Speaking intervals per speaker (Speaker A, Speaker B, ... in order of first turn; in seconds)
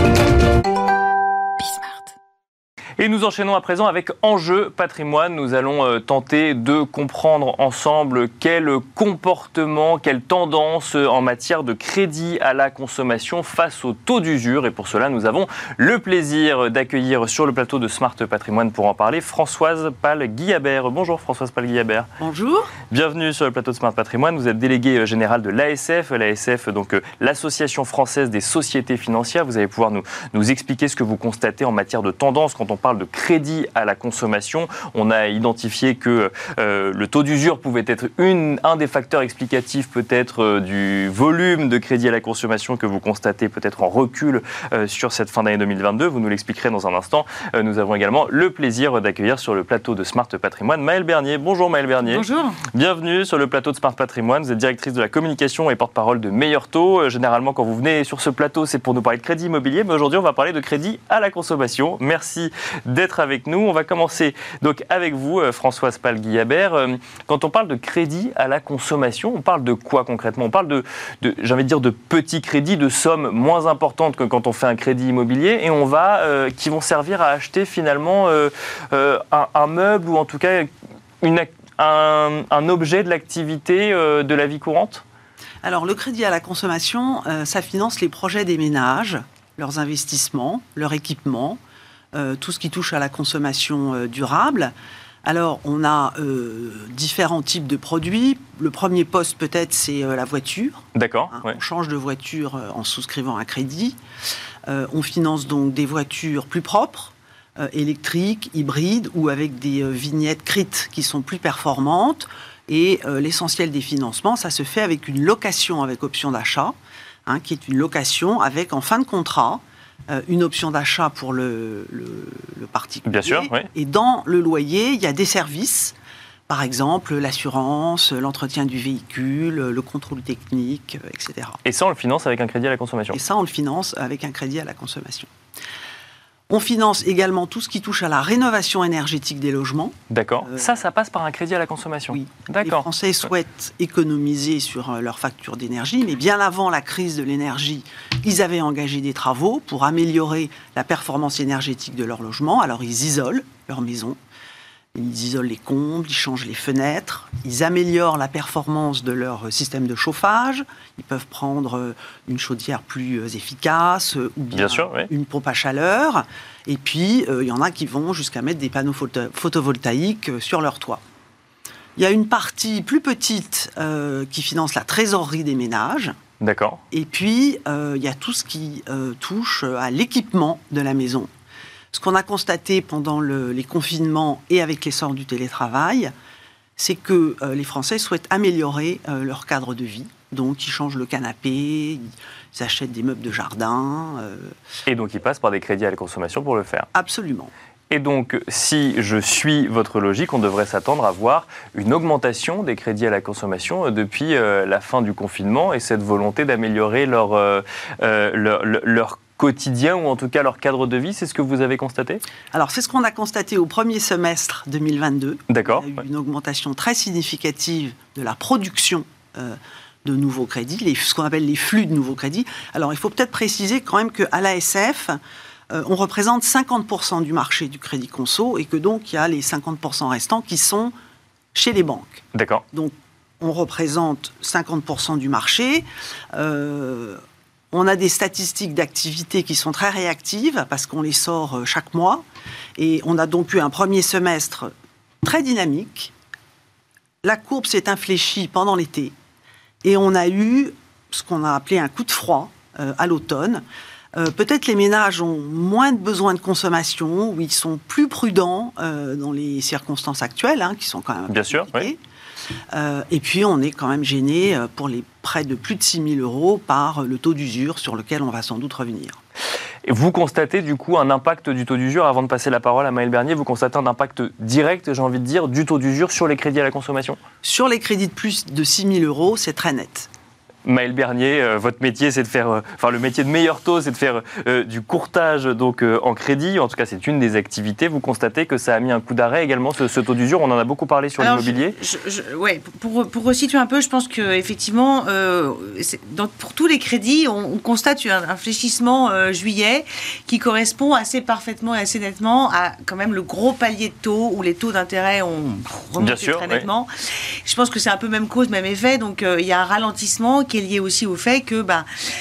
Speaker A: 3.0-22.1, 22.9-80.7, 81.2-85.0, 101.0-101.6, 123.1-123.7, 131.6-133.2, 140.1-142.8, 164.6-165.1, 176.4-176.8, 194.9-196.9, 197.9-212.2, 215.5-215.9, 232.3-232.6, 261.3-261.9, 269.9-277.2, 280.6-291.8, 306.0-306.7
Speaker B: 22.2-22.8, 85.6-91.6, 92.1-104.0, 104.7-116.7, 117.3-126.0, 126.5-131.6, 133.1-135.3, 136.5-140.8, 142.1-154.2, 154.9-171.0, 172.0-176.2, 176.9-181.3, 181.9-186.1, 186.8-194.6, 196.9-197.5, 212.5-225.2, 225.7-230.9, 231.6-237.2, 237.7-242.2, 242.8-246.1, 247.2-249.1, 249.8-253.6, 254.1-262.0, 262.7-269.2, 277.4-280.1
Speaker C: 52.0-52.6, 291.2-306.9, 307.4-311.9